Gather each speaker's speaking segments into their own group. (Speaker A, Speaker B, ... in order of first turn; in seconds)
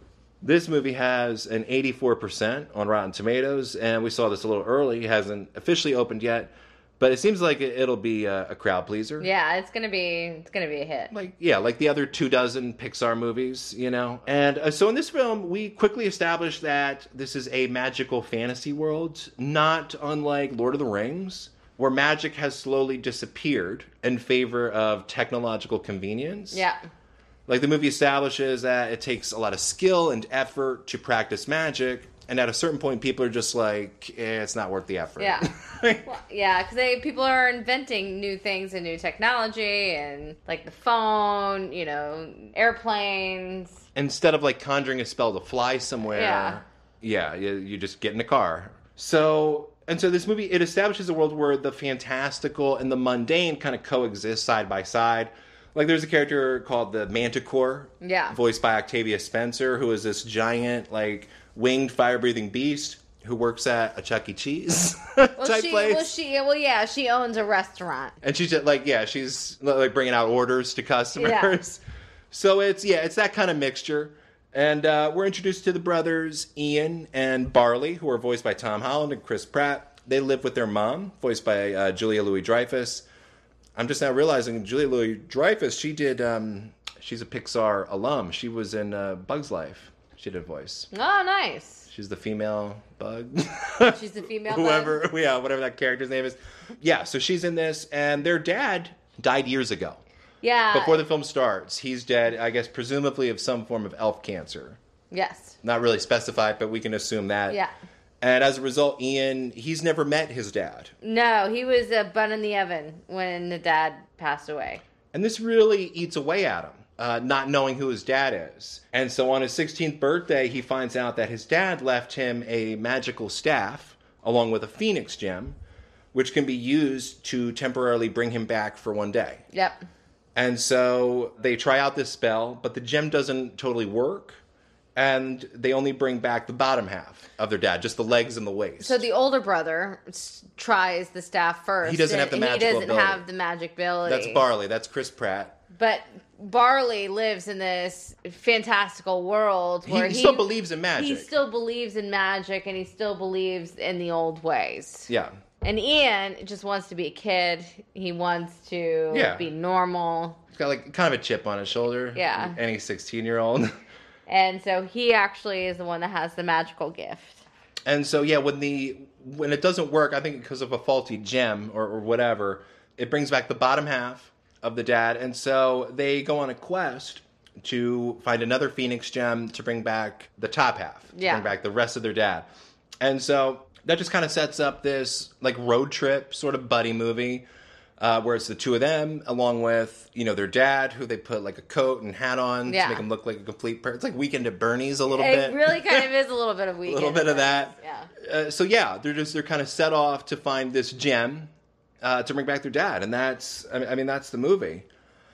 Speaker A: 0.4-9.3, 11.1-26.6, 27.5-36.1, 44.0-66.1, 68.2-83.0, 83.8-90.9, 91.9-100.0, 100.7-104.8, 105.6-107.6, 108.2-110.9, 115.1-125.6, 126.1-129.4, 130.3-134.4, 135.0-139.1, 141.8-143.2, 144.1-145.6, 149.8-151.3, 159.1-159.5, 160.5-163.7, 167.9-182.5, 183.0-187.4, 188.0-196.1, 196.9-201.5, 202.0-204.9
Speaker B: 9.2-11.1, 26.5-26.8, 35.2-35.5, 36.0-43.8, 46.1-46.6, 58.0-58.4, 65.4-68.2, 71.2-71.6, 90.9-91.9, 93.8-95.0, 100.4-101.0, 105.1-105.6, 111.0-114.8, 129.5-129.8, 138.8-144.4, 145.7-155.1, 155.6-160.4, 162.2-162.6, 164.3-167.4, 181.1-181.5, 192.7-193.0, 195.1-198.1